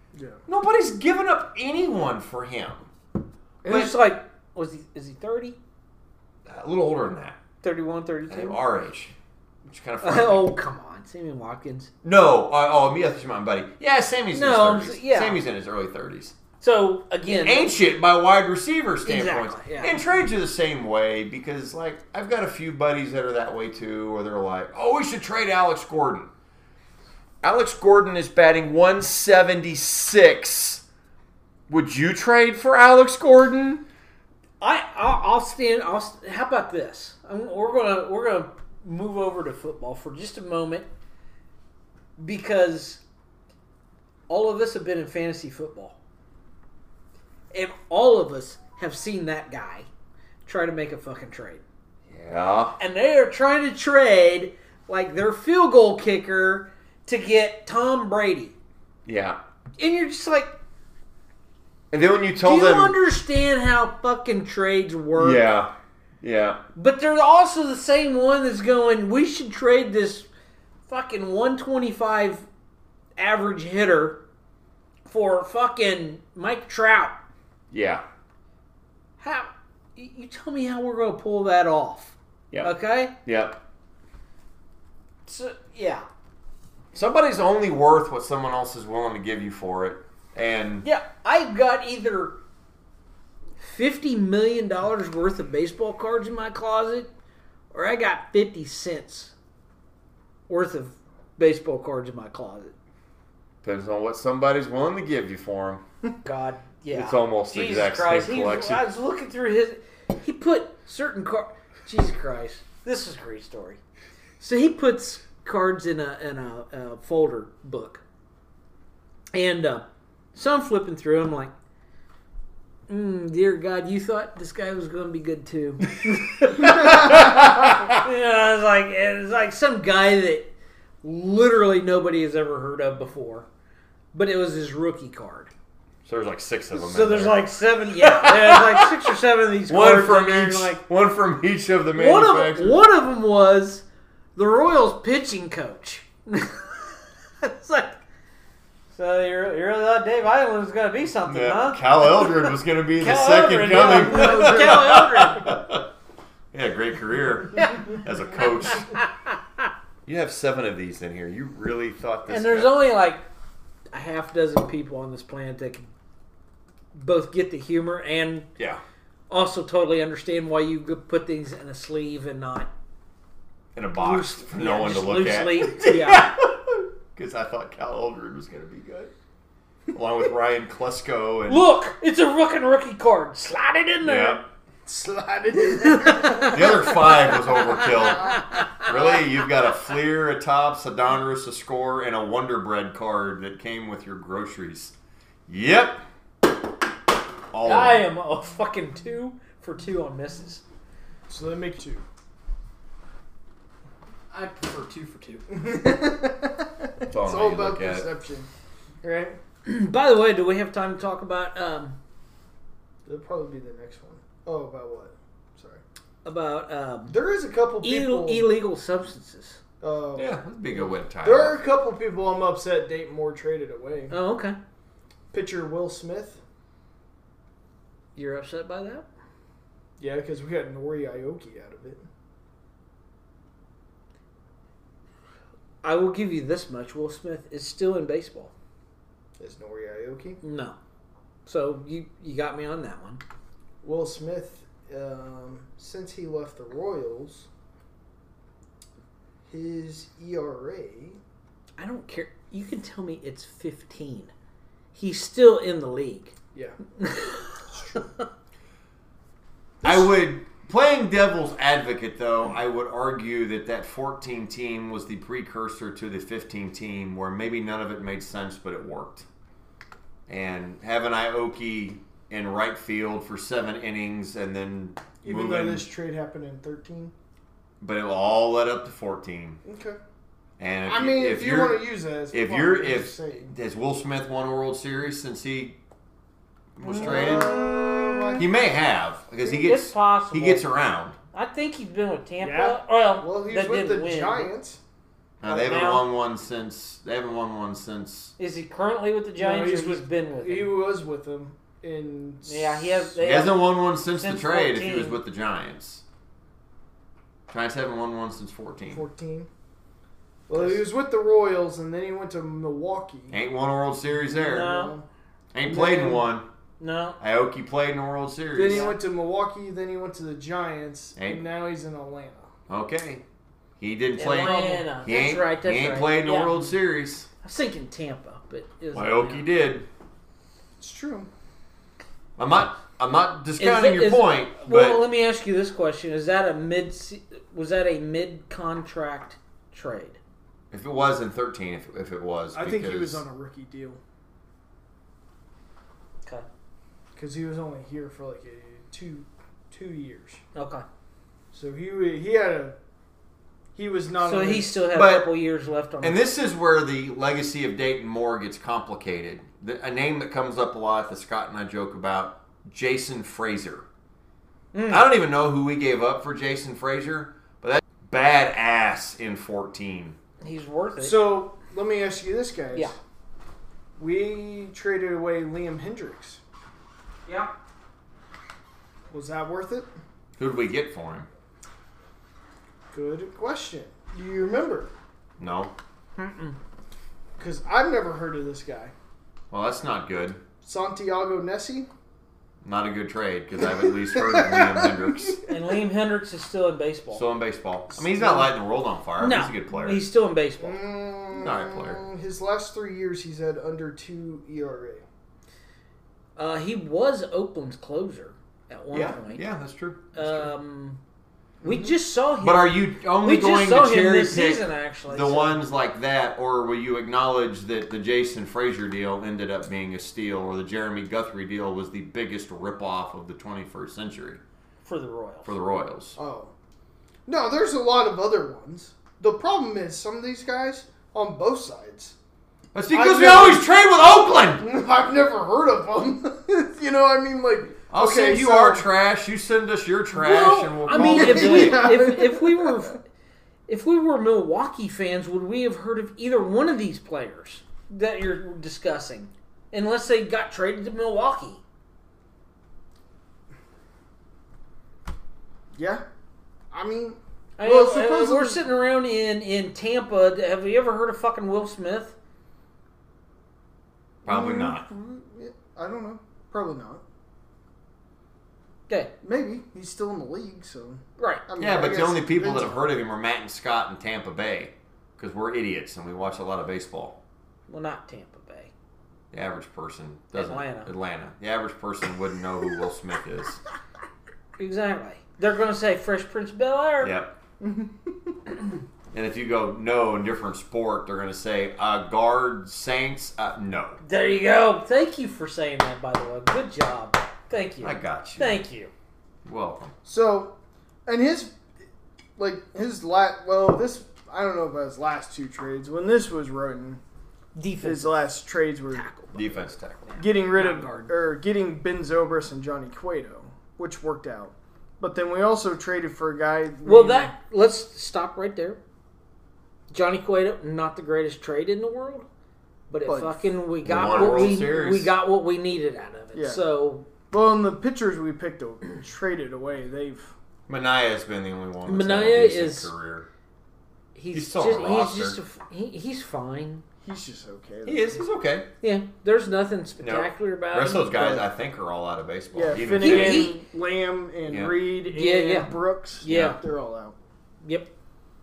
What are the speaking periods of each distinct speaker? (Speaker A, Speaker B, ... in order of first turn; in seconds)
Speaker A: 0.1-0.4, 126.7-127.1, 153.7-155.0, 184.8-187.1, 187.8-188.3, 201.3-202.0, 205.5-208.5, 209.0-209.4, 213.1-215.8, 217.1-218.5, 219.8-224.2, 225.3-226.4, 230.0-232.1, 239.4-240.4, 243.8-247.5, 249.5-251.2, 275.2-277.1, 279.6-280.0, 280.9-283.5, 286.9-288.5, 292.4-294.8, 299.3-303.1, 308.9-309.5, 310.5-313.4, 314.2-315.1, 315.6-316.2, 318.5-322.5, 324.4-324.8, 330.8-331.3, 342.5-344.0, 347.1-350.4, 351.5-352.7, 353.7-354.8, 371.0-372.9, 374.0-376.4, 379.1-379.9, 382.9-384.9, 387.4-388.9, 390.6-391.9, 393.6-395.5, 397.9-398.5, 400.6-405.0, 411.6-411.9, 426.1-426.5, 427.2-432.1, 432.9-433.7, 434.6-438.9, 440.9-442.9, 455.7-456.0, 456.7-458.6, 464.2-467.0, 469.2-472.8, 487.6-488.3, 500.0-500.5, 501.1-501.6, 502.4-507.0, 507.8-509.1, 510.2-517.3, 523.0-523.4, 524.0-524.7, 526.3-526.6, 527.3-530.3, 537.0-538.2, 542.5-547.1
Speaker B: 0.5-2.9, 3.6-3.9, 6.5-7.4, 8.3-9.1, 9.7-10.5, 12.0-16.4, 17.3-26.3, 27.4-30.8, 31.7-33.8, 52.1-52.8, 59.0-59.4, 61.9-63.0, 65.2-66.6, 77.7-78.0, 82.5-83.6, 86.9-90.8, 103.6-105.8, 106.9-108.8, 126.0-128.0, 136.0-137.4, 138.0-139.1, 139.7-142.8, 151.2-155.9, 156.5-159.0, 160.1-162.8, 173.7-179.1, 179.9-181.6, 184.0-184.4, 186.4-194.9, 195.5-196.0, 197.5-198.0, 207.1-208.1, 220.2-221.6, 259.8-269.2, 270.3-275.9, 277.8-279.6, 280.6-285.8, 286.8-287.8, 288.4-291.1, 295.4-298.3, 303.2-306.0, 307.5-309.0, 313.3-314.7, 315.5-316.4, 317.2-318.9, 321.2-321.4, 322.7-323.2, 323.8-327.3, 328.9-329.9, 332.4-335.0, 340.7-343.2, 354.9-355.3, 356.0-363.9, 364.9-370.2, 380.4-381.3, 385.4-385.7, 389.5-390.4, 392.6-395.4, 397.1-400.0, 401.3-402.0, 408.9-410.5, 412.4-424.4, 425.4-426.1, 432.7-434.6, 437.9-442.0, 464.2-464.9, 471.6-477.2, 479.3-483.6, 487.0-487.3, 489.1-494.0, 497.8-498.6, 499.4-499.9, 509.3-510.0, 523.8-525.1, 530.7-533.3, 534.3-535.4, 537.8-538.7, 540.0-543.5, 544.5-544.8, 546.2-546.6
Speaker C: 3.6-5.6, 7.6-8.6, 10.0-11.9, 14.3-15.4, 16.6-17.7, 19.0-20.0, 34.6-40.9, 42.2-43.0, 44.3-46.0, 47.5-49.9, 50.5-51.6, 52.8-58.5, 59.8-60.5, 62.4-65.4, 66.7-70.3, 70.9-72.5, 73.2-74.2, 75.0-77.2, 79.2-83.1, 85.2-86.0, 90.8-92.4, 93.6-97.1, 97.7-99.3, 100.5-102.7, 106.2-113.8, 114.4-118.0, 119.3-121.5, 122.9-130.5, 131.0-133.4, 134.1-135.5, 136.7-140.8, 141.9-143.8, 144.3-148.0, 148.9-155.5, 157.6-158.0, 158.7-159.4, 162.3-163.2, 163.9-165.9, 166.9-168.5, 169.3-172.7, 174.0-176.3, 181.5-184.4, 185.6-188.9, 197.6-200.6, 204.3-205.5, 209.6-211.9, 216.2-217.2, 217.8-219.6, 224.1-224.6, 228.2-229.1, 235.8-238.5, 240.4-240.8, 241.4-243.2, 251.8-254.3, 254.9-256.3, 257.0-258.0, 289.4-290.6, 291.3-294.5, 295.4-296.1, 298.4-300.7, 302.4-305.2, 314.4-314.9, 316.8-317.2, 318.6-319.0, 324.1-326.7, 327.4-329.4, 333.6-340.2, 350.5-350.8, 354.2-356.2, 364.7-365.1, 370.4-371.3, 377.2-377.5, 386.2-386.6, 395.5-397.2, 399.2-400.8, 406.4-409.4, 410.1-411.0, 411.6-415.6, 424.8-425.5, 440.1-443.0, 443.7-451.6, 457.6-462.1, 471.2-471.4, 477.7-478.7, 480.3-480.9, 484.6-487.1, 494.0-498.9, 507.6-508.3, 508.9-511.1, 516.8-518.8, 519.9-522.3, 522.9-527.1, 531.9-532.9, 534.1-536.8, 538.8-541.4, 543.0-543.6, 545.1-546.6, 547.6-547.9